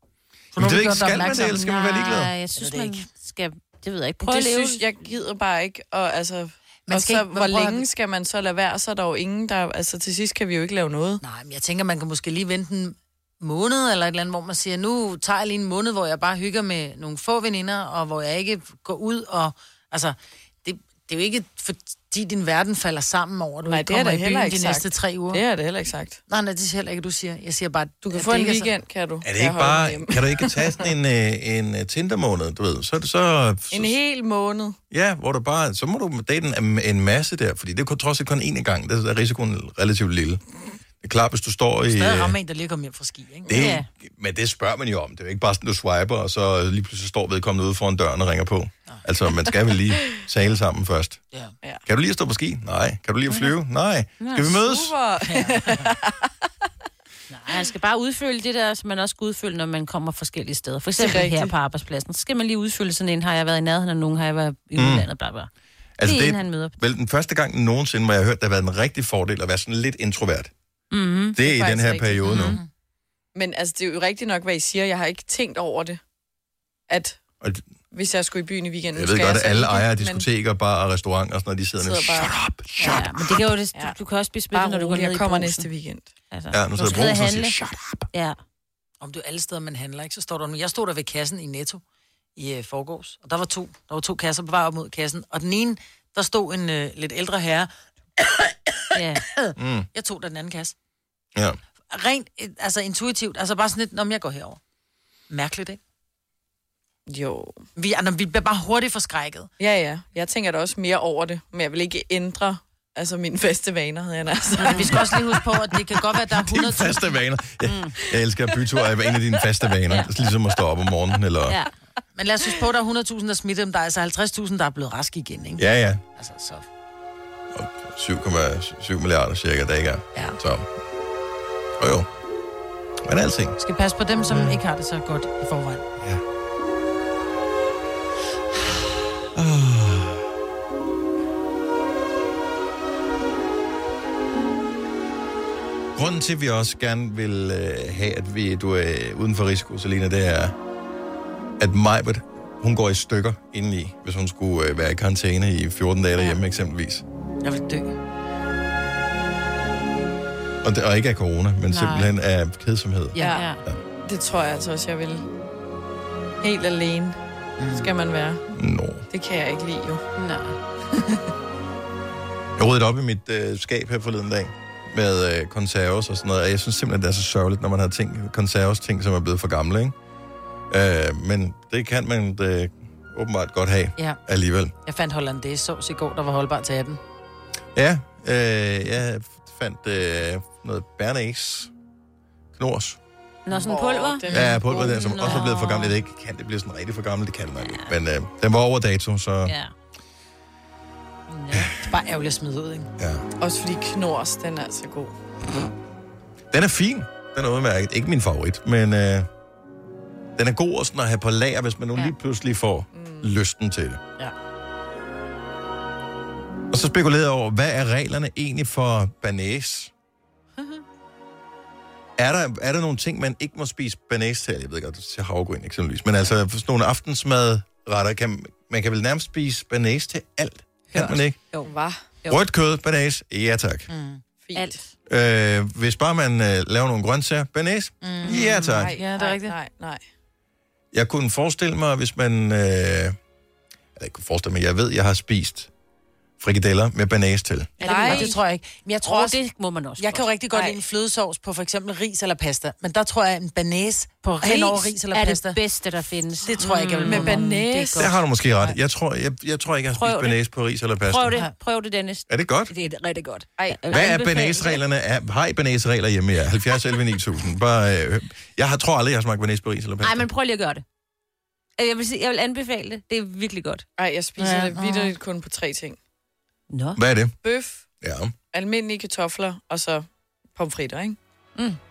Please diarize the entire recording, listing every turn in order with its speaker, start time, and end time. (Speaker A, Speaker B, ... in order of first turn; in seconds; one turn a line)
Speaker A: 0.5-1.6
Speaker B: 0.6-2.3
Speaker C: 1.2-4.8
Speaker A: 2.6-3.0
Speaker D: 4.2-11.2
Speaker A: 6.9-7.9
Speaker A: 11.2-25.4
Speaker D: 23.6-26.2
Speaker A: 26.3-28.7
Speaker D: 28.1-30.8
Speaker B: 29.2-34.0
Speaker D: 33.7-34.8
Speaker B: 34.9-40.4
Speaker B: 41.0-42.4
Speaker A: 41.9-43.7
Speaker B: 43.5-51.2
Speaker C: 43.5-43.9
Speaker B: 51.9-54.9
Speaker C: 54.2-54.5
Speaker D: 54.5-56.3
Speaker A: 55.2-55.9
Speaker A: 57.3-57.6
Speaker C: 57.5-65.5
Speaker D: 61.0-61.5
Speaker B: 64.8-65.1
Speaker B: 66.0-70.5
Speaker C: 66.0-66.8
Speaker C: 70.9-71.4
Speaker B: 71.3-72.6
Speaker D: 71.4-72.3
Speaker C: 72.2-72.6
Speaker A: 72.3-72.7
Speaker D: 73.3-76.0
Speaker D: 76.9-77.2
Speaker B: 77.4-77.7
Speaker D: 77.9-80.2
Speaker B: 78.9-83.1
Speaker D: 81.8-82.3
Speaker C: 82.8-85.7
Speaker D: 84.5-86.1
Speaker C: 86.3-87.6
Speaker B: 86.5-87.8
Speaker C: 88.1-88.4
Speaker A: 89.0-91.8
Speaker A: 92.3-97.7
Speaker C: 98.9-99.2
Speaker A: 99.3-100.7
Speaker B: 99.6-99.9
Speaker A: 101.9-104.6
Speaker A: 105.3-105.8
Speaker D: 107.1-107.6
Speaker A: 107.8-109.5
Speaker D: 109.6-115.2
Speaker A: 114.6-117.1
Speaker B: 116.3-121.6
Speaker C: 117.6-118.0
Speaker A: 122.2-125.6
Speaker B: 125.6-126.0
Speaker A: 126.2-126.7
Speaker B: 127.5-130.7
Speaker B: 131.8-132.1
Speaker B: 133.0-133.6
Speaker A: 133.6-135.8
Speaker B: 134.3-134.6
Speaker B: 139.3-140.2
Speaker B: 145.9-150.5
Speaker B: 151.6-157.0
Speaker A: 157.4-157.9
Speaker B: 160.6-163.8
Speaker A: 161.7-162.0
Speaker D: 163.2-163.5
Speaker C: 163.3-163.6
Speaker D: 164.0-165.3
Speaker D: 166.4-167.2
Speaker A: 167.6-167.9
Speaker D: 167.7-168.4
Speaker B: 168.5-169.0
Speaker D: 169.1-170.1
Speaker C: 170.2-170.6
Speaker D: 170.9-171.3
Speaker B: 172.6-179.9
Speaker B: 180.7-184.7
Speaker A: 184.8-187.0
Speaker B: 187.7-191.7
Speaker B: 192.5-193.0
Speaker C: 193.4-195.9
Speaker D: 193.6-195.0
Speaker B: 194.3-199.5
Speaker A: 194.3-194.6
Speaker C: 197.6-197.9
Speaker C: 199.4-199.7
Speaker C: 201.3-201.7
Speaker A: 201.8-202.9
Speaker B: 203.0-203.2
Speaker D: 203.4-205.2
Speaker B: 206.5-209.3
Speaker B: 210.3-214.0
Speaker D: 212.9-213.3
Speaker B: 216.7-219.9
Speaker B: 222.2-231.4
Speaker A: 230.9-231.7
Speaker D: 231.7-232.0
Speaker B: 232.3-233.9
Speaker A: 233.9-234.2
Speaker D: 234.4-234.8
Speaker C: 234.5-234.9
Speaker B: 235.1-238.9
Speaker A: 238.0-239.5
Speaker C: 238.3-238.5
Speaker D: 238.7-240.0
Speaker B: 240.9-243.2
Speaker B: 243.9-245.7
Speaker B: 246.4-247.7
Speaker A: 247.8-249.4
Speaker D: 247.8-248.3
Speaker C: 247.9-248.3
Speaker C: 249.0-250.2
Speaker A: 250.0-255.6
Speaker D: 250.5-250.8
Speaker C: 254.4-258.1
Speaker A: 256.4-258.8
Speaker D: 257.1-257.6
Speaker B: 257.9-261.4
Speaker C: 259.9-260.4
Speaker C: 261.1-262.9
Speaker B: 262.3-262.7
Speaker A: 262.8-263.4
Speaker C: 263.6-264.8
Speaker B: 263.9-270.2
Speaker C: 270.0-270.8
Speaker C: 271.8-273.8
Speaker D: 274.0-276.0
Speaker A: 274.4-275.1
Speaker C: 276.7-277.0
Speaker B: 276.9-277.3
Speaker D: 277.4-277.9
Speaker B: 278.0-278.3
Speaker D: 278.5-281.2